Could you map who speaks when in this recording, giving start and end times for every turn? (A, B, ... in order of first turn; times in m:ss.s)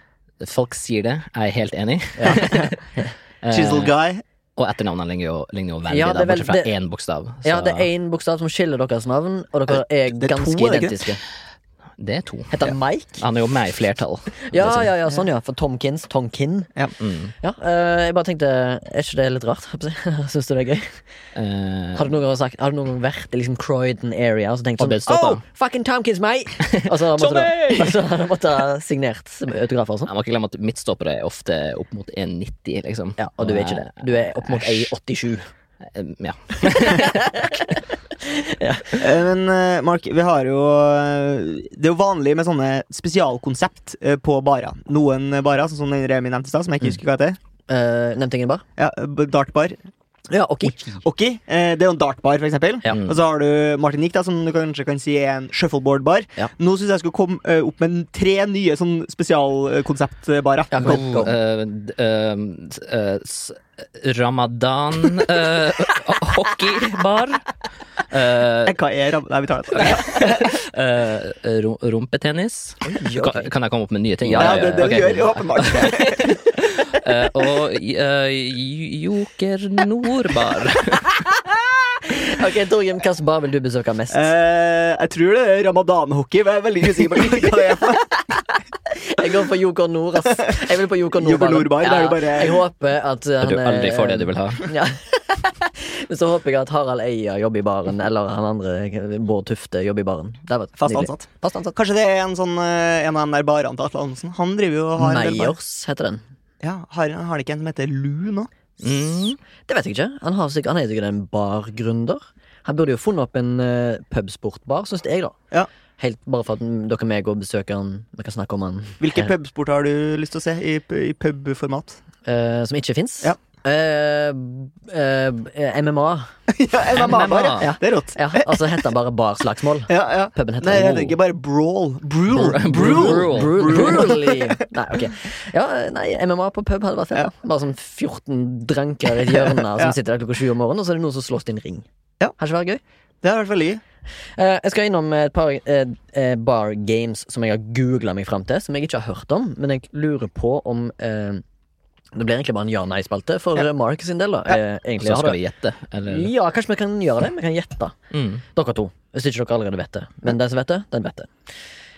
0:00.4-0:02.8 A
0:02.2-0:03.1 B
0:03.4-0:03.9 A
0:03.5-0:04.2 C
0:04.6-0:07.9 A
0:05.9-0:06.7 B
0:07.4-0:11.2 B
0:09.7-0:11.1 C
0:12.0-0:12.6 A
0:12.5-0:13.2 B
0:13.2-0:14.9 A
0:14.5-0:16.7 B
0:17.0-0:17.3 A
0:17.4-0:21.0 B
0:21.4-0:22.1 A
0:22.0-0:30.1 B
0:24.8-0:25.4 A
0:26.6-0:28.0 A
0:30.1-0:34.9 A
0:33.2-0:35.5 B
0:35.9-0:37.2 A
0:36.7-0:39.0 B
0:39.0-0:47.4 C
0:47.7-0:48.6 B
0:48.8-0:49.8 C
0:50.3-0:51.0 B
0:51.0-1:01.0 C
0:52.9-0:53.2 A
1:00.7-1:01.4 B
1:00.8-1:07.5 A
1:08.1-1:08.8 A
1:08.7-1:10.5 C
1:09.7-1:21.1 A
1:12.8-1:13.5 B
1:14.2-1:14.9 B
1:14.3-1:16.4 C
1:22.1-1:24.3 B
1:24.1-1:28.0 C
1:28.9-1:41.7 B
1:31.2-1:32.6 C
1:33.4-1:34.7 A
1:40.8-1:45.6 C
1:45.0-1:46.2 B
1:46.6-1:48.5 C
1:48.8-1:49.4 A
1:48.8-1:49.1 B
1:49.7-1:55.4 B
1:56.0-1:59.3 B
1:59.0-2:02.0 C
2:02.2-2:06.3 B
2:06.5-2:08.6 C
2:06.9-2:07.7 A
2:07.6-2:11.2 B
2:09.9-2:14.6 C
2:12.3-2:14.1 A
2:12.6-2:21.8 B
2:19.3-2:20.0 C
2:22.4-2:22.8 B
2:23.2-2:23.8 C
2:24.4-2:31.4 B
2:32.2-2:35.4 B
2:35.0-2:36.3 A
2:36.1-2:38.0 B
2:38.1-2:38.4 A
2:38.5-2:41.3 B